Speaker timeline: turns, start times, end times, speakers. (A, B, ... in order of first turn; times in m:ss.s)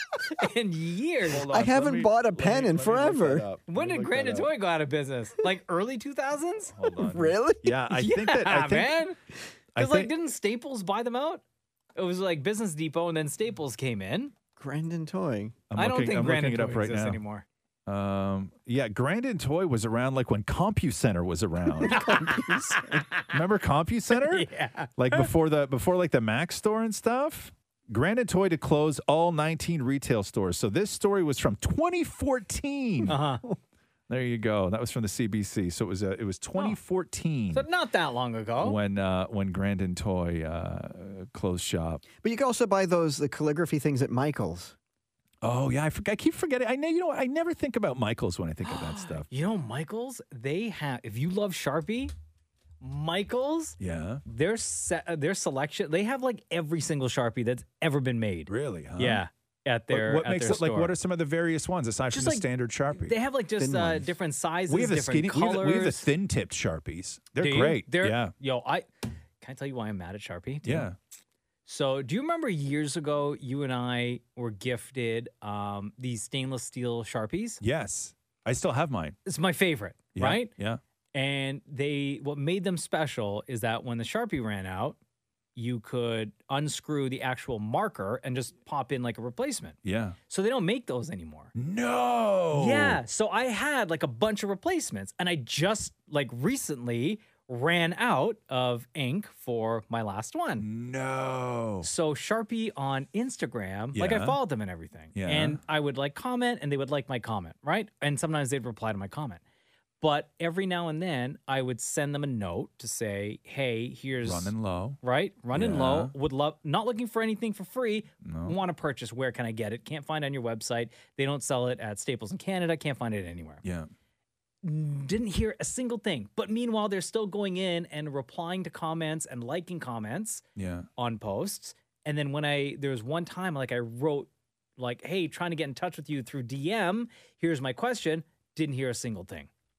0:00.2-0:01.4 A
0:01.3-0:04.5 B
0:01.5-0:03.4 C
0:03.7-0:06.7 A
0:06.7-0:09.0 B
0:07.0-0:07.7 C
0:07.9-0:09.2 A
0:09.7-0:10.1 B
0:09.8-0:11.4 A
0:11.9-0:14.3 A
0:14.6-0:15.6 C
0:15.7-0:17.2 B
0:15.8-0:17.4 A
0:17.9-0:22.0 B
0:21.8-0:23.0 C
0:21.9-0:23.3 A
0:23.3-0:33.2 B
0:24.1-0:25.3 A
0:33.1-0:33.4 A
0:34.1-0:37.6 B
0:37.5-0:38.8 A
0:38.6-0:42.0 B
0:42.2-0:44.7 C
0:45.4-0:49.2 B
0:48.6-0:52.1 A
0:52.8-1:00.9 A
0:53.8-0:54.2 B
0:58.5-0:59.2 B
0:59.9-1:03.2 B
1:02.1-1:06.1 A
1:03.6-1:04.0 C
1:04.7-1:08.3 B
1:07.4-1:08.9 A
1:09.4-1:10.9 A
1:10.6-1:10.9 B
1:11.6-1:17.6 A
1:17.6-1:19.2 B
1:19.2-1:20.5 A
1:20.2-1:20.8 B
1:21.1-1:25.0 A
1:25.6-1:29.8 A
1:29.8-1:30.2 B
1:30.3-1:31.5 A
1:31.6-1:33.0 B
1:32.5-1:40.6 A
1:40.6-1:41.9 B
1:41.8-1:49.4 A
1:43.9-1:44.4 B
1:45.1-1:45.6 B
1:50.0-2:03.6 A
1:54.2-1:55.0 B
1:55.5-1:56.1 B
1:58.2-1:58.6 B
2:03.6-2:03.9 B
2:04.6-2:10.4 A
2:10.6-2:10.9 B
2:11.0-2:19.5 A